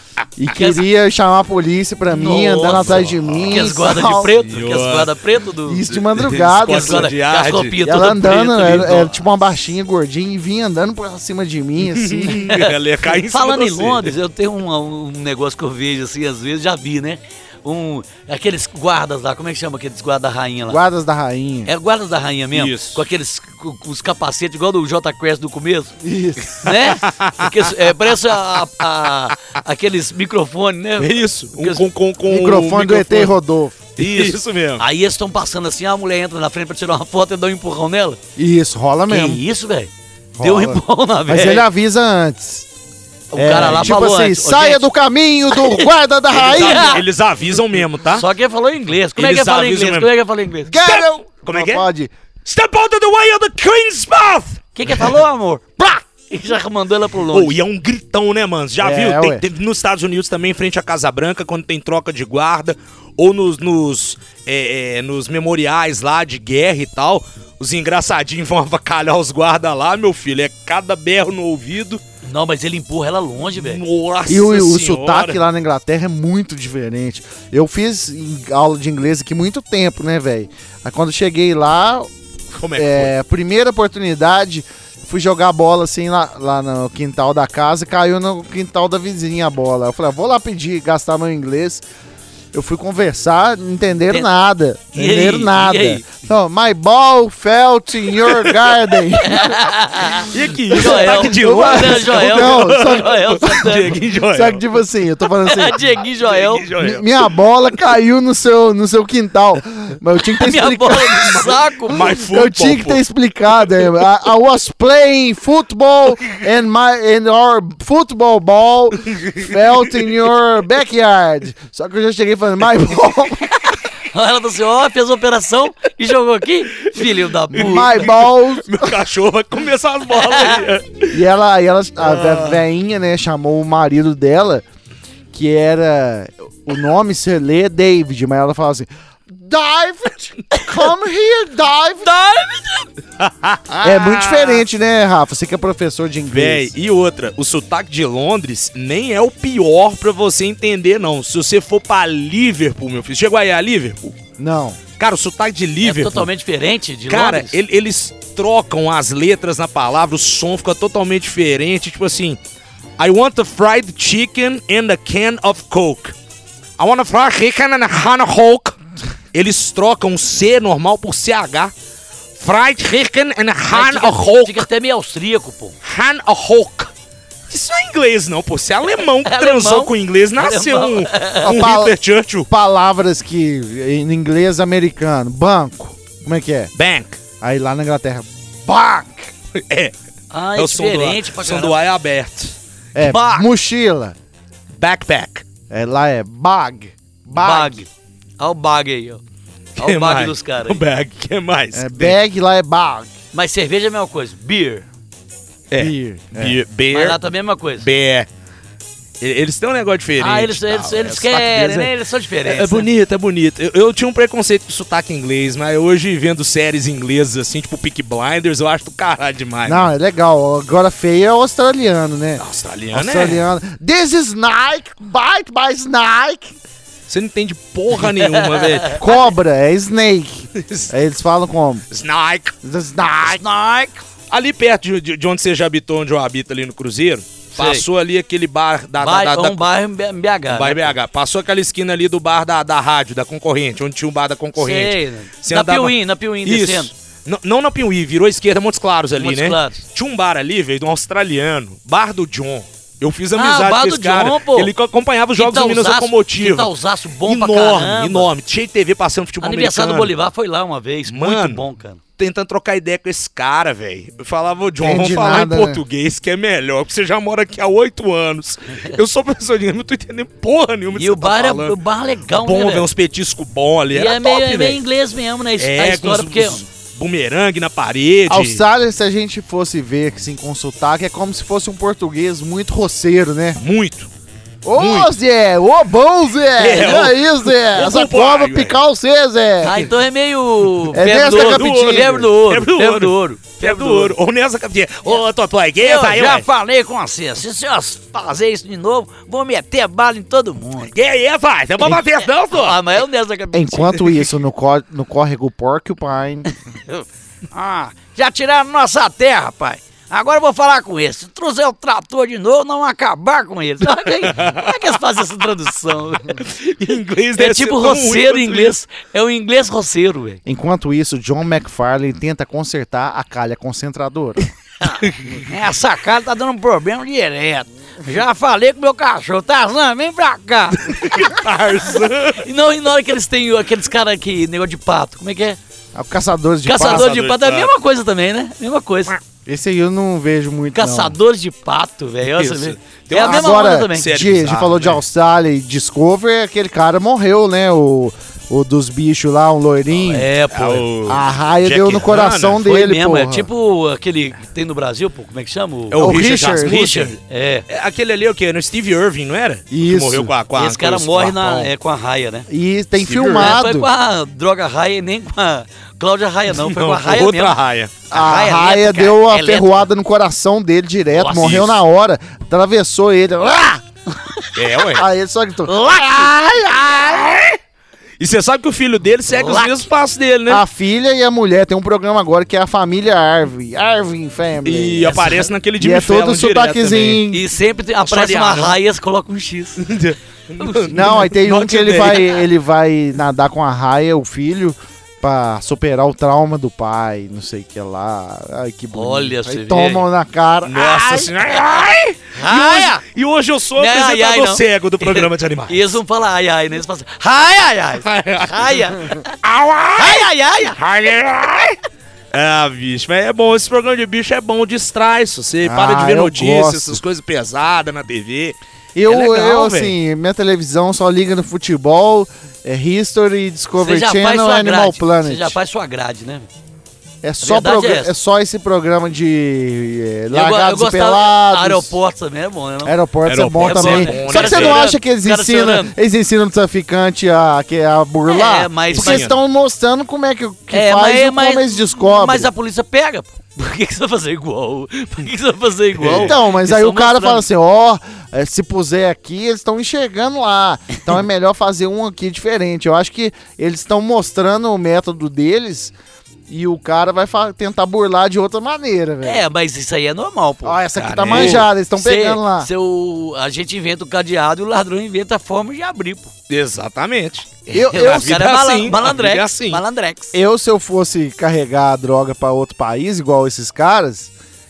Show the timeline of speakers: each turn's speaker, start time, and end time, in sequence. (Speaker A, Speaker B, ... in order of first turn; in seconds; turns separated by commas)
Speaker A: 0.4-4.3, Speaker B: 0.5-0.8, Speaker B: 2.1-5.8, Speaker C: 2.7-3.8, Speaker C: 4.4-5.1, Speaker A: 5.7-7.1, Speaker C: 5.9-9.0, Speaker B: 6.6-9.1, Speaker A: 7.8-12.5, Speaker C: 11.8-14.1, Speaker B: 12.3-20.8, Speaker A: 20.7-21.7, Speaker B: 21.7-25.9, Speaker C: 22.5-23.0, Speaker A: 26.0-26.8, Speaker B: 26.6-31.8, Speaker C: 26.8-28.1, Speaker C: 31.0-33.3, Speaker A: 32.2-33.9, Speaker C: 34.0-34.8, Speaker B: 34.0-38.2, Speaker A: 38.4-39.4, Speaker B: 39.1-41.6, Speaker A: 40.4-42.6, Speaker B: 43.3-44.8, Speaker A: 43.3-47.0, Speaker C: 43.5-43.9, Speaker B: 45.5-45.9, Speaker C: 46.3-48.2, Speaker B: 46.4-47.0, Speaker B: 48.1-50.7, Speaker C: 49.1-50.1, Speaker A: 50.7-52.1, Speaker C: 50.8-51.9, Speaker C: 52.4-55.1, Speaker B: 54.7-57.6, Speaker C: 57.3-72.0, Speaker A: 58.8-59.4, Speaker B: 72.2-73.8, Speaker C: 73.5-75.4, Speaker A: 74.3-82.1, Speaker C: 82.5-83.1, Speaker A: 82.8-91.8, Speaker A: 92.5-99.7, Speaker B: 94.9-96.0, Speaker C: 98.2-98.7, Speaker B: 99.2-104.0, Speaker C: 100.2-104.6, Speaker A: 100.7-105.8, Speaker B: 105.4-106.7, Speaker C: 106.1-107.2, Speaker A: 106.8-123.8, Speaker B: 110.3-112.1, Speaker C: 111.2-113.0, Speaker C: 119.1-119.6, Speaker B: 124.1-128.1, Speaker C: 126.8-131.2, Speaker A: 127.5-128.9, Speaker B: 130.1-130.6, Speaker A: 131.1-134.6, Speaker C: 132.0-132.6, Speaker A: 135.3-142.1, Speaker B: 142.0-142.9, Speaker C: 143.2-144.6, Speaker A: 143.8-146.7, Speaker C: 146.3-154.2, Speaker A: 154.4-154.8, Speaker C: 155.0-156.3, Speaker B: 155.8-157.6, Speaker C: 157.1-162.4, Speaker C: 163.0-166.1, Speaker C: 166.8-168.8, Speaker C: 169.3-171.7, Speaker C: 172.4-174.7, Speaker B: 173.7-175.7, Speaker C: 175.8-176.9, Speaker C: 177.5-182.5, Speaker B: 179.2-181.6, Speaker A: 181.4-181.9, Speaker A: 182.5-186.7, Speaker C: 186.7-187.2, Speaker A: 187.4-189.3, Speaker C: 189.5-189.9, Speaker B: 190.3-191.8, Speaker C: 190.5-192.5, Speaker A: 192.9-194.2, Speaker B: 193.0-193.5, Speaker C: 194.8-195.4, Speaker A: 195.7-197.8, Speaker B: 197.3-197.9, Speaker B: 198.4-199.2, Speaker B: 199.8-200.8, Speaker C: 199.8-202.2, Speaker A: 201.7-203.1, Speaker B: 203.3-204.8, Speaker C: 205.7-207.2, Speaker A: 205.8-206.6, Speaker B: 206.9-207.9, Speaker C: 207.8-208.3, Speaker C: 209.2-219.9, Speaker B: 210.2-212.9, Speaker A: 219.7-226.5, Speaker C: 222.4-223.4, Speaker C: 227.1-229.0, Speaker B: 228.1-228.9, Speaker A: 229.0-231.8, Speaker C: 230.5-230.9, Speaker C: 231.9-232.6, Speaker A: 232.6-233.4, Speaker B: 233.2-234.0, Speaker C: 234.3-239.6, Speaker B: 237.5-237.8, Speaker B: 239.0-240.9, Speaker C: 240.5-256.7, Speaker B: 244.6-246.9, Speaker B: 249.2-249.8, Speaker B: 253.3-254.7, Speaker B: 255.3-258.3, Speaker C: 257.2-260.1, Speaker B: 259.4-262.0, Speaker C: 261.1-261.6, Speaker C: 262.2-271.8, Speaker A: 264.8-265.8, Speaker B: 270.9-272.9, Speaker C: 272.3-274.8, Speaker B: 273.9-276.6, Speaker C: 275.6-278.6, Speaker A: 278.3-283.6, Speaker C: 283.6-284.1, Speaker A: 284.6-289.9, Speaker C: 284.8-285.1, Speaker C: 286.6-288.8, Speaker B: 289.6-294.1, Speaker A: 290.9-292.2, Speaker C: 291.1-296.4, Speaker B: 295.8-300.9, Speaker C: 300.9-302.8, Speaker B: 301.8-304.1, Speaker A: 303.5-306.5, Speaker B: 306.9-316.4, Speaker C: 314.1-315.0, Speaker C: 316.4-318.7, Speaker B: 317.3-320.4, Speaker A: 320.4-324.5, Speaker B: 324.8-331.4, Speaker C: 330.8-332.4, Speaker B: 332.4-335.6, Speaker A: 335.9-337.1, Speaker B: 336.6-339.2, Speaker C: 336.8-337.7, Speaker A: 339.4-341.1, Speaker B: 340.7-344.1, Speaker C: 342.2-345.0, Speaker A: 343.2-350.3, Speaker B: 350.1-350.9, Speaker C: 350.5-352.6, Speaker A: 351.1-353.5, Speaker B: 352.6-357.6, Speaker C: 355.9-357.1, Speaker A: 356.0-356.9, Speaker C: 357.7-361.7, Speaker A: 359.7-360.3, Speaker B: 360.5-362.5, Speaker A: 362.5-363.9, Speaker C: 363.0-363.6, Speaker B: 363.3-367.6, Speaker C: 366.5-367.9, Speaker B: 368.1-369.9, Speaker A: 368.1-373.8, Speaker B: 371.1-371.7, Speaker C: 371.3-371.7, Speaker B: 374.2-374.6, Speaker C: 374.5-375.1, Speaker A: 374.9-377.4, Speaker B: 375.6-377.2, Speaker C: 378.2-380.6, Speaker B: 379.3-379.8, Speaker A: 380.5-385.2, Speaker C: 384.6-387.2, Speaker B: 385.0-385.5, Speaker A: 385.8-387.4, Speaker B: 387.3-389.8, Speaker C: 388.1-388.8, Speaker C: 389.8-392.4, Speaker B: 390.6-391.2, Speaker A: 390.9-401.3, Speaker B: 398.9-400.1, Speaker C: 400.6-406.0, Speaker B: 402.3-403.0, Speaker B: 403.8-409.4, Speaker C: 408.0-411.8, Speaker B: 409.9-410.8, Speaker C: 412.3-419.9, Speaker A: 415.6-417.0, Speaker A: 418.9-425.6, Speaker B: 423.8-426.5, Speaker A: 427.2-431.9, Speaker B: 427.4-428.1, Speaker B: 430.3-432.9, Speaker A: 432.8-442.5, Speaker C: 433.2-434.9, Speaker B: 433.6-435.9, Speaker B: 438.2-439.3, Speaker C: 438.9-439.4, Speaker B: 440.7-447.4, Speaker C: 446.0-446.3, Speaker A: 446.1-455.9, Speaker A: 456.5-459.4, Speaker B: 459.2-466.3, Speaker A: 460.6-462.7, Speaker C: 460.9-461.7, Speaker C: 466.5-469.8, Speaker B: 467.7-470.3, Speaker A: 467.7-468.4, Speaker A: 470.3-474.3